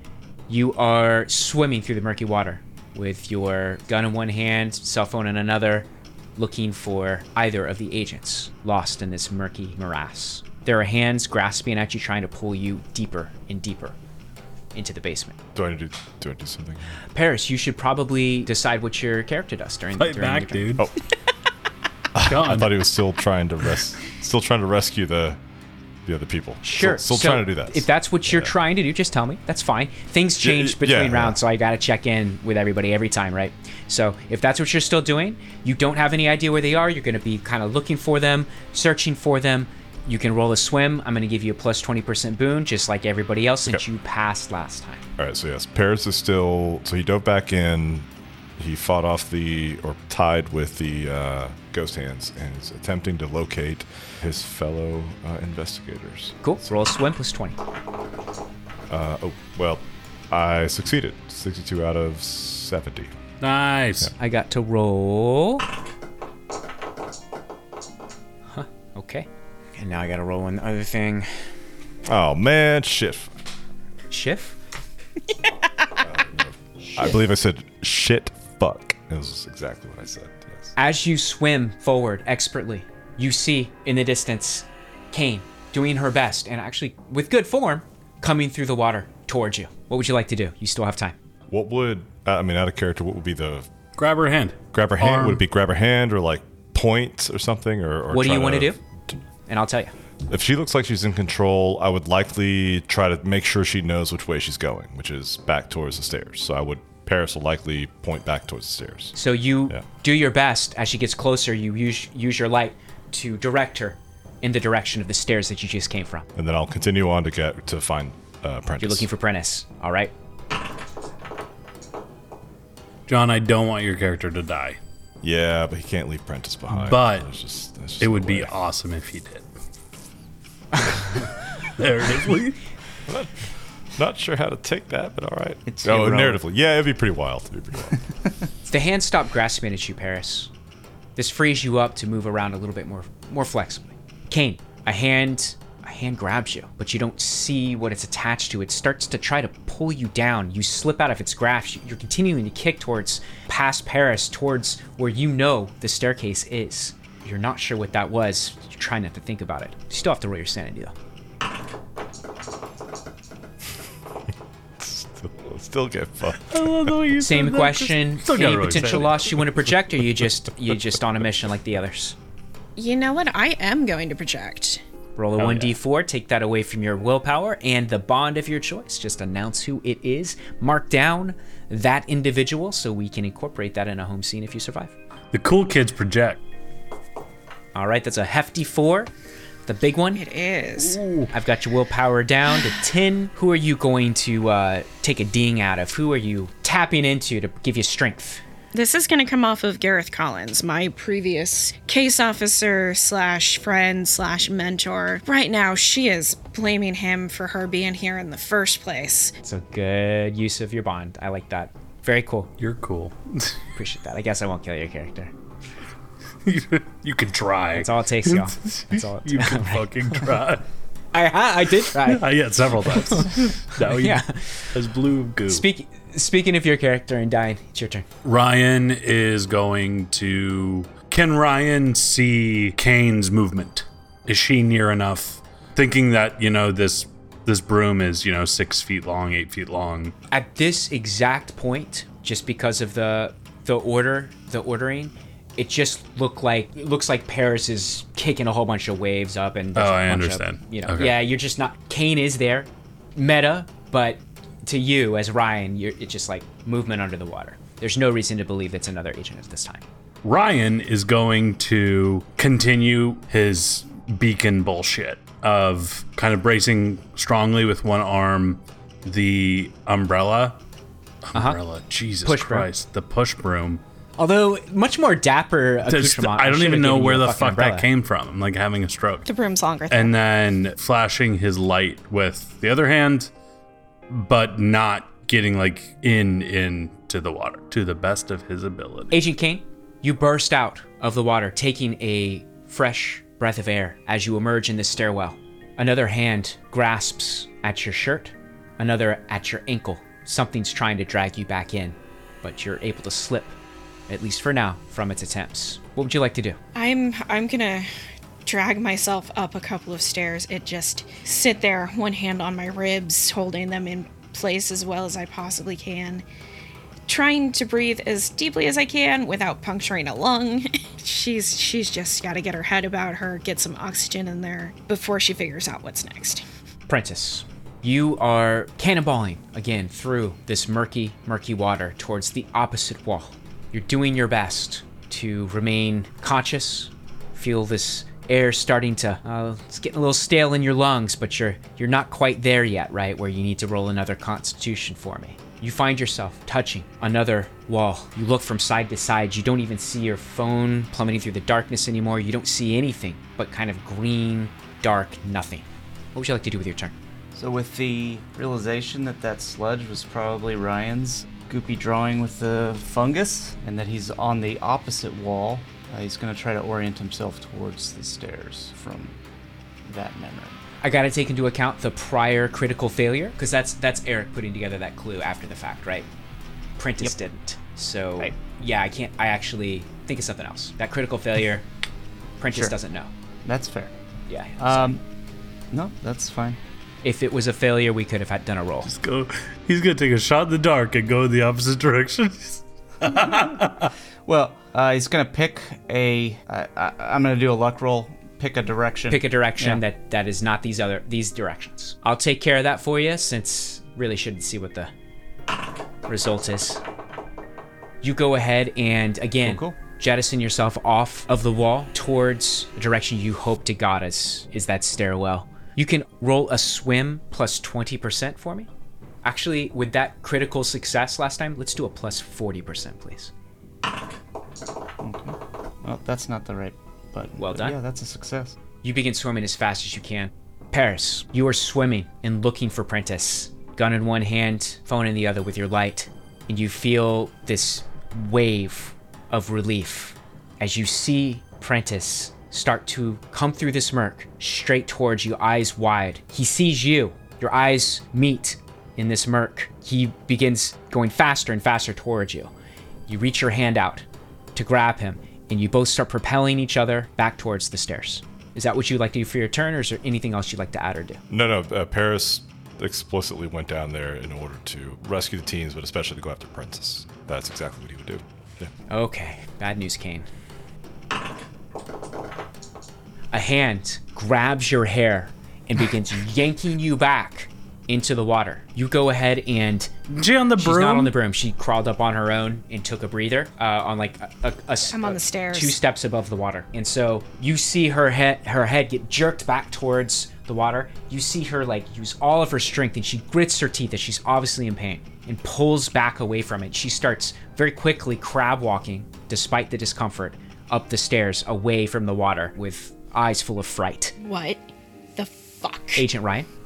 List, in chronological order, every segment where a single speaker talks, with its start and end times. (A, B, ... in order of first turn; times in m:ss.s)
0:00.5-0:14.0 A
0:14.7-0:15.4 A
0:15.5-0:17.0 B
0:17.1-0:20.8 A
0:20.0-0:20.9 C
0:22.1-0:25.4 B
0:22.2-0:22.8 C
0:26.0-0:28.5 B
0:26.6-0:45.0 A
0:30.4-0:31.4 B
0:45.2-0:56.7 B
0:56.4-0:57.6 A
0:58.9-1:03.1 B
1:03.4-1:04.1 C
1:04.2-1:05.6 A
1:08.5-1:11.3 A
1:12.0-1:13.3 B
1:14.1-1:14.6 A
1:16.0-1:20.7 B
1:20.8-1:31.2 A
1:31.5-1:33.7 B
1:34.0-1:35.4 C
1:34.7-1:39.2 B
1:38.1-1:38.8 A
1:39.5-1:39.9 A
1:40.3-1:49.2 B
1:49.2-1:56.3 A
1:56.4-1:59.1 B
1:58.8-2:00.1 A
2:03.1-2:04.8 C
2:05.2-2:08.5 B
2:06.8-2:07.3 C
2:08.0-2:09.4 C
2:11.8-2:12.6 C
2:13.1-2:18.0 B
2:15.6-2:16.4 D
2:18.7-2:20.5 A
2:21.2-2:40.9 A
2:44.8-2:47.0 B
2:46.4-2:49.4 C
2:47.2-2:52.1 A
2:52.8-2:54.8 E
2:55.2-3:04.9 A
2:55.4-2:55.8 C
3:05.3-3:06.4 C
3:07.7-3:09.1 A
3:09.6-3:10.2 A
3:10.1-3:11.0 E
3:10.8-3:11.3 C
3:11.3-3:18.4 A
3:18.7-3:29.3 E
3:29.4-3:32.5 A
3:32.6-3:33.5 C
3:33.8-3:35.3 A
3:36.4-3:40.6 C
3:37.7-3:40.2 A
3:41.1-3:42.2 A
3:41.9-3:45.6 C
3:42.9-3:44.8 A
3:45.5-3:48.0 A
3:48.2-4:00.1 C
4:00.3-4:19.8 A
4:09.8-4:11.1 C
4:20.2-4:30.6 C
4:31.2-4:33.8 C
4:32.2-4:32.7 A
4:34.2-4:37.9 A
4:35.9-4:39.2 C
4:39.2-4:40.2 E
4:39.9-4:43.3 C
4:44.1-4:49.2 C
4:49.1-5:03.5 A
5:04.1-5:06.6 A
5:06.7-5:07.9 E
5:08.4-5:16.2 E
5:17.1-5:26.4 E
5:26.9-5:56.9 A
5:57.3-6:09.2 D
6:09.8-6:10.6 D
6:10.8-6:16.1 A
6:16.8-6:21.6 A
6:22.4-6:23.1 A
6:23.4-6:23.9 D
6:24.3-6:25.0 A
6:24.6-6:25.0 D
6:25.7-6:26.6 D
6:27.0-6:28.9 A
6:28.8-6:33.9 C
6:33.0-6:33.6 D
6:34.2-6:39.8 D
6:39.1-6:44.9 A
6:46.1-6:46.8 A
6:48.0-6:58.7 A
6:49.4-6:49.8 D
6:59.2-7:03.3 A
7:05.0-7:08.6 D
7:07.4-7:07.8 A
7:08.8-7:32.5 A
7:33.1-7:41.2 A
7:41.3-7:48.7 B
7:48.9-7:50.2 A
7:53.3-7:59.9 A
8:00.1-8:01.1 C
8:00.6-8:24.1 A
8:04.9-8:05.8 E
8:24.2-8:26.0 E
8:26.0-8:26.5 A